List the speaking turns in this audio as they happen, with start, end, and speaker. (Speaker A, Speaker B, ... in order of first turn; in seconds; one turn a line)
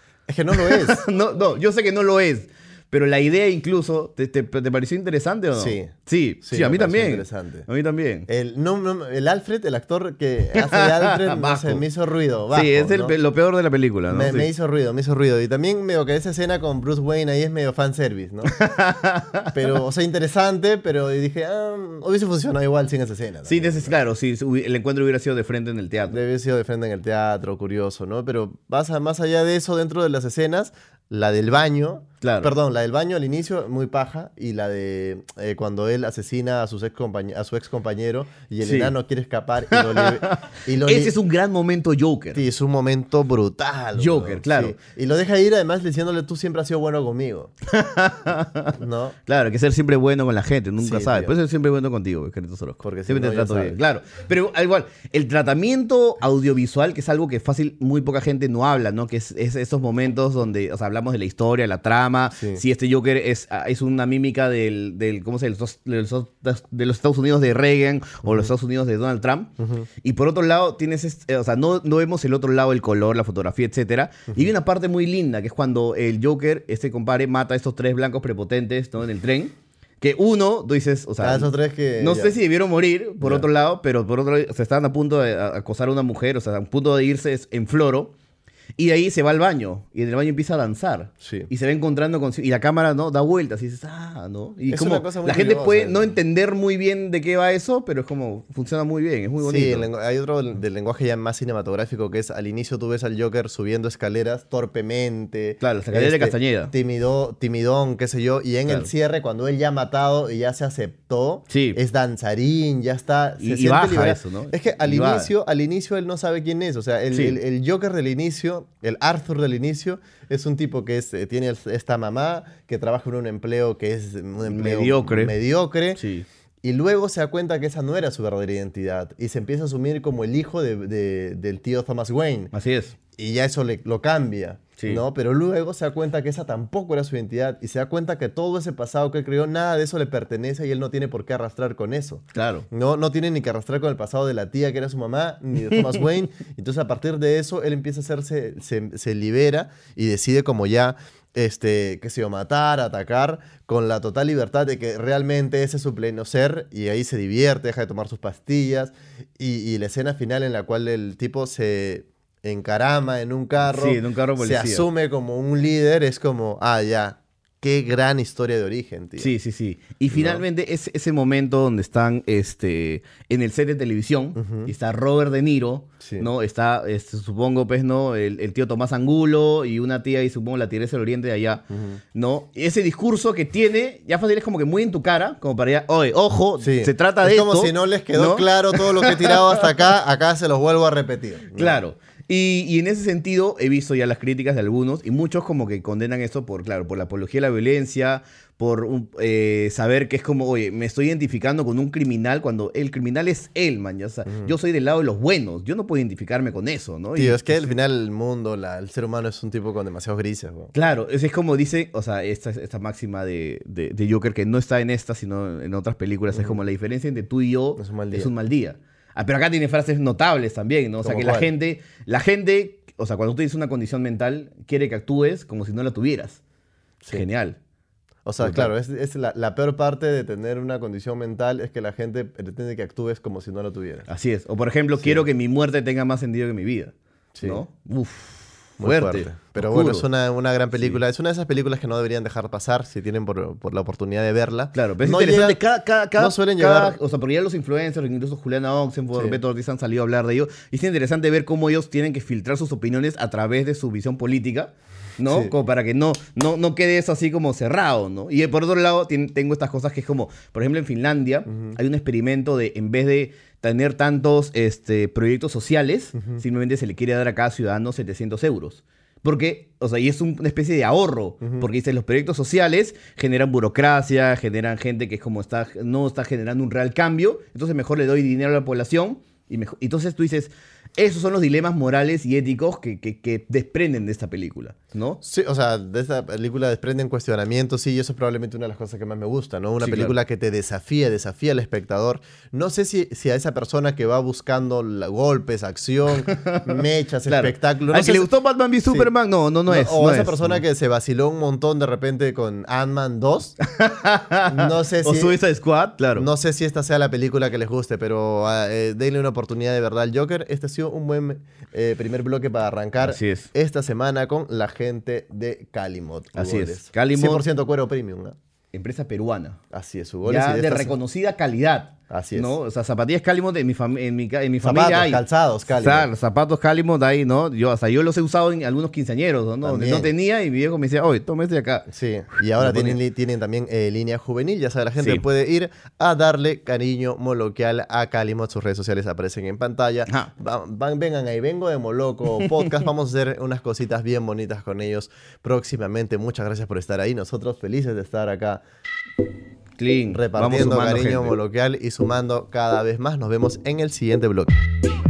Speaker A: 0.3-1.0
Speaker B: 0.5-8.3
Speaker A: 5.6-7.7
Speaker A: 8.3-13.2
Speaker B: 10.6-11.8
Speaker B: 12.5-14.5
Speaker A: 14.1-18.5
Speaker B: 18.5-19.6
Speaker A: 19.5-23.9
Speaker B: 23.5-26.2
Speaker A: 26.1-41.1
Speaker B: 32.2-32.5
Speaker B: 38.6-38.9
Speaker B: 39.7-42.4
Speaker A: 42.3-47.5
Speaker B: 44.0-44.8
Speaker B: 47.7-88.1
Speaker A: 48.8-49.2
Speaker A: 50.8-51.3
Speaker A: 52.8-53.8
Speaker A: 62.3-62.6
Speaker A: 69.6-69.9
Speaker A: 81.2-82.4
Speaker A: 83.2-83.5
Speaker B: 88.8-99.9
Speaker A: 91.2-91.5
Speaker A: 94.7-96.1
Speaker A: 99.4-126.0
Speaker B: 105.6-106.7
Speaker B: 111.5-111.8
Speaker B: 113.4-115.3
Speaker B: 117.1-117.4
Speaker B: 124.4-125.3
Speaker B: 126.0-126.3
Speaker A: 126.6-132.5
Speaker B: 132.5-133.0
Speaker A: 133.1-169.3
Speaker B: 142.3-142.7
Speaker B: 145.7-146.0
Speaker B: 163.6-164.9
Speaker B: 169.2-189.7
Speaker A: 170.1-170.4
Speaker A: 174.4-174.7
Speaker A: 176.0-176.3
Speaker A: 181.7-182.0
Speaker A: 186.6-191.8
Speaker B: 191.6-207.8
Speaker A: 204.3-204.5
Speaker A: 207.2-210.7
Speaker B: 210.7-226.4
Speaker A: 216.3-216.6
Speaker A: 217.8-218.3
Speaker A: 221.0-221.5
Speaker B: 227.1-227.6
Speaker A: 228.2-234.1
Speaker B: 228.4-228.7
Speaker B: 234.1-240.1
Speaker A: 237.3-237.6
Speaker A: 238.8-245.6
Speaker B: 244.7-285.2
Speaker A: 246.2-247.0
Speaker A: 249.1-249.4
Speaker A: 255.3-255.5
Speaker A: 261.5-261.8
Speaker A: 266.2-266.4
Speaker A: 285.2-298.3
Speaker B: 289.8-290.2
Speaker B: 296.3-300.6
Speaker A: 299.7-303.6
Speaker B: 303.6-306.3
Speaker A: 304.5-305.4
Speaker A: 306.1-318.4
Speaker B: 313.0-313.5
Speaker B: 316.4-317.4
Speaker B: 318.7-319.6
Speaker A: 319.7-320.9
Speaker B: 320.2-331.9
Speaker A: 322.1-322.5
Speaker A: 324.6-326.1
Speaker A: 329.6-330.1
Speaker A: 331.9-348.6
Speaker B: 332.6-333.0
Speaker B: 342.4-342.8
Speaker B: 349.8-351.4
Speaker A: 350.1-354.6